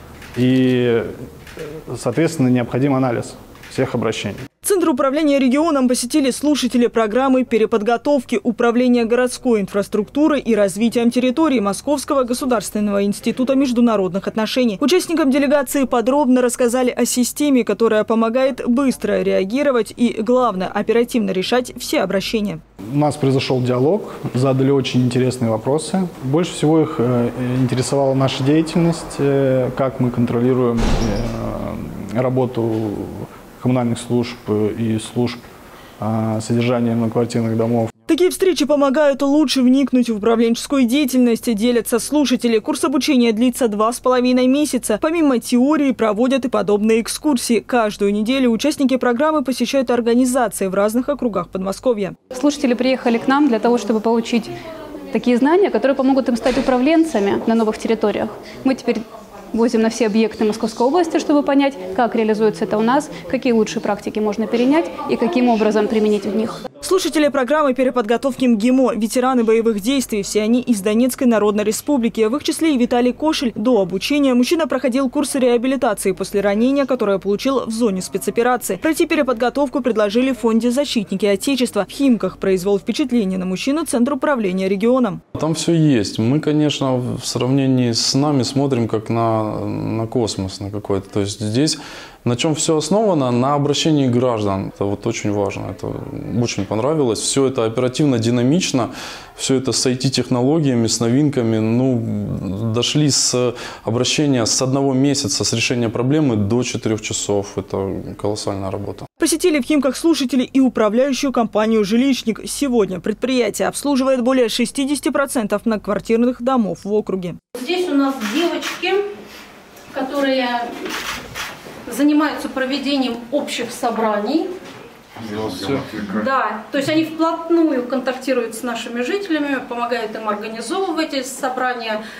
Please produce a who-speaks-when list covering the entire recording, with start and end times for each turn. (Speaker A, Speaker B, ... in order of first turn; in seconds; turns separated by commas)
Speaker A: 0.3-1.1, Speaker A: 1.9-4.4, Speaker B: 4.6-22.6, Speaker A: 22.9-35.4, Speaker A: 36.0-37.9, Speaker B: 38.1-52.1, Speaker C: 52.3-54.5, Speaker C: 55.1-66.6, Speaker B: 66.8-85.2, Speaker D: 85.3-109.1, Speaker B: 109.2-117.4, Speaker E: 117.5-119.0, Speaker E: 119.9-120.9, Speaker E: 121.8-124.5, Speaker E: 125.9-132.0